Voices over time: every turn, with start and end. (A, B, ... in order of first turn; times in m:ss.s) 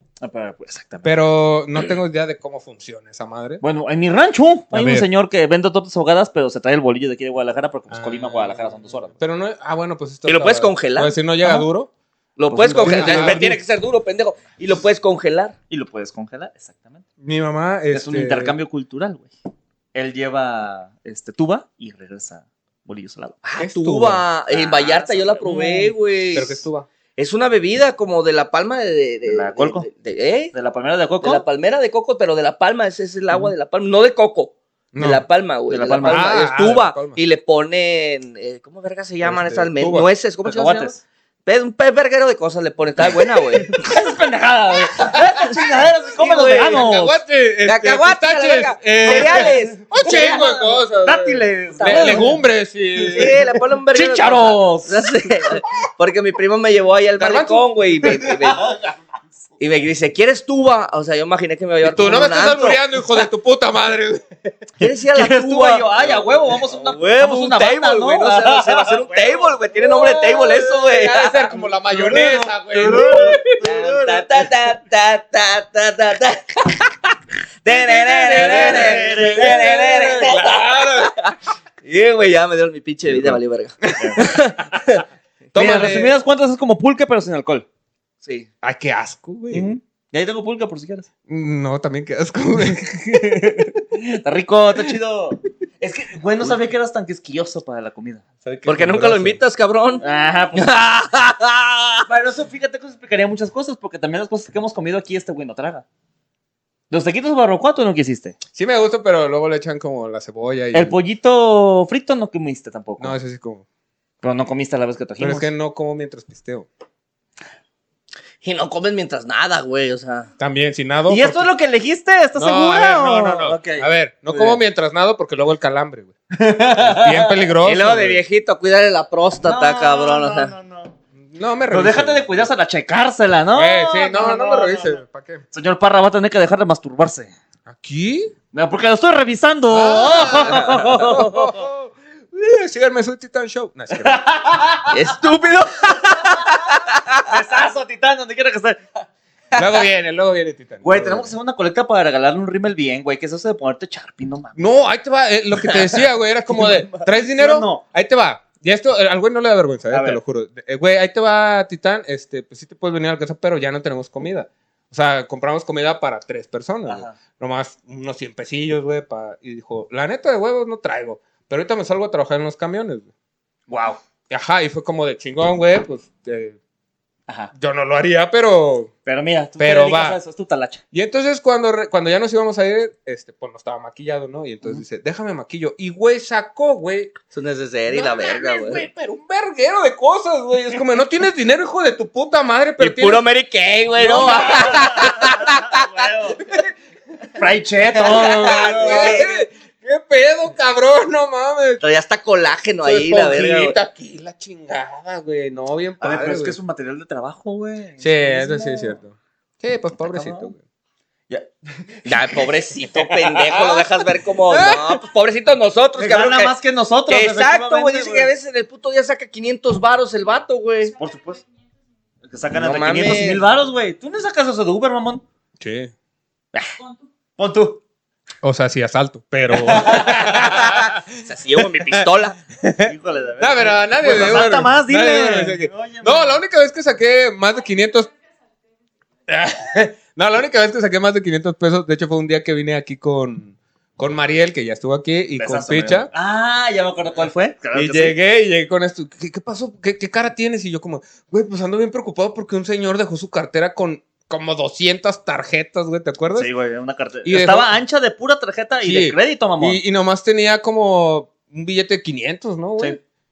0:00.2-0:01.1 A
0:01.0-0:03.6 B
0:03.6-0:09.2 A
0:04.7-0:05.1 B
0:07.9-0:11.9 B
0:10.3-0:11.2 C
0:12.4-0:15.5 C
0:12.5-0:13.5 A
0:12.7-0:13.6 B
0:15.7-0:17.0 A
0:17.2-0:18.6 B
0:17.9-0:19.3 A
0:19.9-0:23.4 A
0:23.4-0:26.6 C
0:23.6-0:24.2 B
0:24.5-0:25.9 A
0:26.3-0:26.9 B
0:27.2-0:30.5 C
0:29.3-0:29.9 A
0:30.5-0:31.4 A
0:31.2-0:40.9 C
0:34.9-0:35.2 B
0:35.7-0:36.4 A
0:36.0-0:37.2 B
0:39.2-0:40.1 B
0:40.4-0:41.0 A
0:41.5-0:43.8 C
0:43.6-0:47.2 A
0:46.1-0:46.9 C
0:46.7-0:53.4 B
0:47.6-0:50.5 C
0:49.0-0:52.4 A
0:51.8-0:52.4 C
0:53.0-0:53.4 A
0:53.1-0:58.6 C
0:53.9-0:55.3 A
0:57.2-0:57.6 B
0:58.2-0:59.0 A
0:59.6-1:02.8 C
1:01.8-1:04.3 B
1:04.8-1:11.5 C
1:04.8-1:09.6 A
1:09.8-1:13.6 B
1:11.9-1:14.3 A
1:13.6-1:17.0 C
1:17.6-1:25.0 C
1:17.7-1:21.1 B
1:18.3-1:19.5 A
1:23.1-1:24.2 B
1:24.0-1:24.2 A
1:25.5-1:26.1 B
1:25.6-1:27.7 A
1:28.2-1:28.5 C
1:28.6-1:29.7 B
1:29.5-1:31.1 A
1:31.3-1:33.7 B
1:33.0-1:38.2 A
1:38.4-1:39.4 B
1:38.7-1:42.1 C
1:40.0-1:40.7 A
1:42.1-1:45.8 A
1:46.9-1:48.4 A
1:48.6-1:51.0 B
1:50.7-1:53.2 A
1:53.0-1:53.6 B
1:54.2-1:55.5 A
1:55.2-1:56.7 B
1:58.4-2:00.3 C
2:00.4-2:01.5 B
2:01.1-2:04.6 A
2:02.4-2:06.1 B
2:06.3-2:07.5 A
2:06.8-2:08.2 B
2:07.6-2:10.5 C
2:09.4-2:10.9 A
2:11.2-2:12.5 B
2:11.7-2:15.0 A
2:13.5-2:15.4 B
2:15.5-2:17.3 A
2:17.7-2:18.3 B
2:18.5-2:21.6 A
2:19.7-2:24.2 B
2:20.5-2:21.2 C
2:24.0-2:25.0 A
2:24.9-2:27.2 C
2:27.2-2:28.8 A
2:29.6-2:31.3 B
2:30.8-2:34.7 A
2:34.6-2:53.1 B
2:36.5-2:37.8 A
2:39.9-2:40.2 A
2:46.9-2:47.2 A
2:53.7-2:54.0 A
2:54.3-2:56.6 B
2:57.5-2:58.9 B
2:59.1-3:00.8 A
2:59.6-3:00.2 B
3:00.9-3:07.1 B
3:07.3-3:08.8 C
3:07.9-3:13.2 B
3:12.8-3:16.1 C
3:14.0-3:15.2 B
3:14.0-3:16.4 A
3:17.4-3:19.3 A
3:18.0-3:19.3 C
3:18.1-3:21.8 B
3:21.8-3:23.8 C
3:22.8-3:26.6 B
3:26.0-3:29.0 A
3:28.0-3:30.6 B
3:30.0-3:30.5 A
3:31.3-3:32.4 A
3:32.1-3:36.5 C
3:33.4-3:34.0 B
3:34.5-3:35.0 B
3:36.0-3:38.3 A
3:37.1-3:41.0 C
3:41.0-3:41.4 A
3:42.3-3:45.2 A
3:42.5-3:43.4 C
3:45.6-3:45.9 B
3:47.4-3:47.8 A
3:48.4-3:51.0 B
3:49.5-3:50.4 A
3:50.4-3:52.4 C
3:51.6-3:52.1 B
3:52.6-3:58.1 B
3:52.8-3:56.4 A
3:59.3-4:06.1 B
4:05.4-4:08.2 A
4:07.7-4:16.5 B
4:16.4-4:19.8 A
4:17.2-4:17.7 B
4:18.8-4:23.0 B